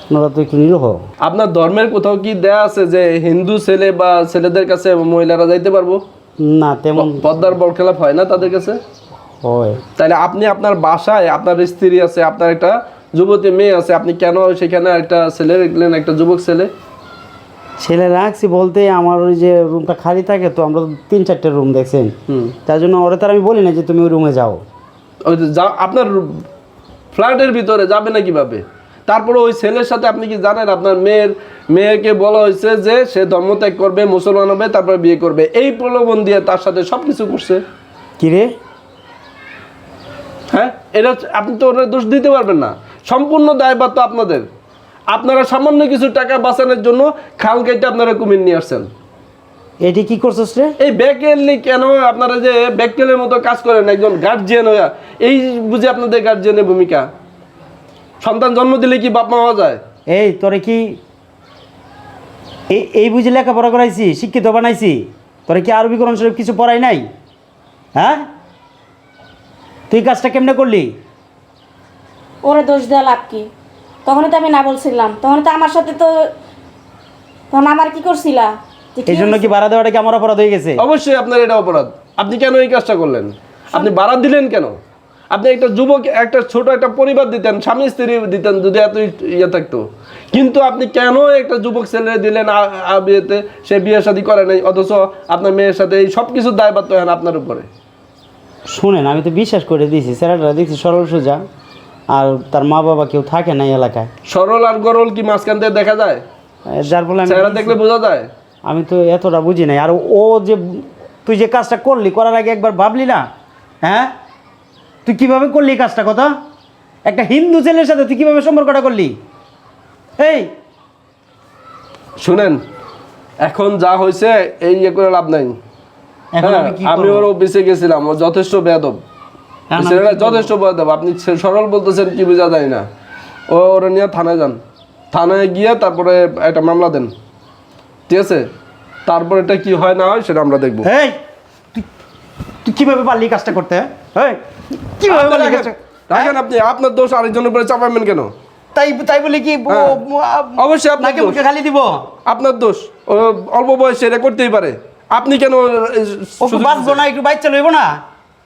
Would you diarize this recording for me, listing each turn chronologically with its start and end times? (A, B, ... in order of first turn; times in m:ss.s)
0:00.1-0:01.0 A
0:01.2-0:06.0 B
0:06.4-0:07.3 A
0:07.0-0:08.8 B
0:09.4-0:09.8 A
0:10.0-0:16.7 B
0:17.8-0:22.1 A
0:22.6-0:24.6 A
0:25.2-0:26.4 B
0:27.1-0:37.6 B
0:38.2-0:38.5 A
0:40.5-0:44.5 B
0:45.1-0:48.9 B
0:49.8-0:50.7 A
0:50.8-0:57.1 B
0:58.2-0:59.8 B
1:00.1-1:01.0 A
1:02.7-1:07.0 A
1:08.0-1:08.2 A
1:09.9-1:10.9 A
1:12.4-1:13.5 C
1:14.0-1:16.3 C
1:17.5-1:19.5 C
1:19.0-1:20.8 A
1:20.8-1:24.7 B
1:25.3-1:37.7 B
1:38.7-1:41.4 A
1:42.1-1:44.1 A
1:44.3-1:46.2 B
1:46.7-1:47.8 A
1:47.3-1:48.3 B
1:48.6-1:53.2 A
1:53.8-1:54.1 A
1:55.0-1:56.3 A
1:57.0-1:59.2 A
2:00.2-2:00.5 A
2:02.2-2:02.6 B
2:03.4-2:05.6 B
2:06.3-2:07.2 A
2:06.4-2:09.0 B
2:09.7-2:10.5 A
2:09.8-2:12.8 B
2:13.5-2:14.6 B
2:15.1-2:17.1 B
2:18.1-2:18.5 B
2:19.1-2:20.9 B
2:20.8-2:21.2 A
2:22.6-2:26.3 A
2:25.1-2:28.3 B
2:28.7-2:32.0 A
2:29.7-2:30.0 B
2:30.6-2:31.4 B
2:32.2-2:37.0 B
2:36.4-2:38.0 A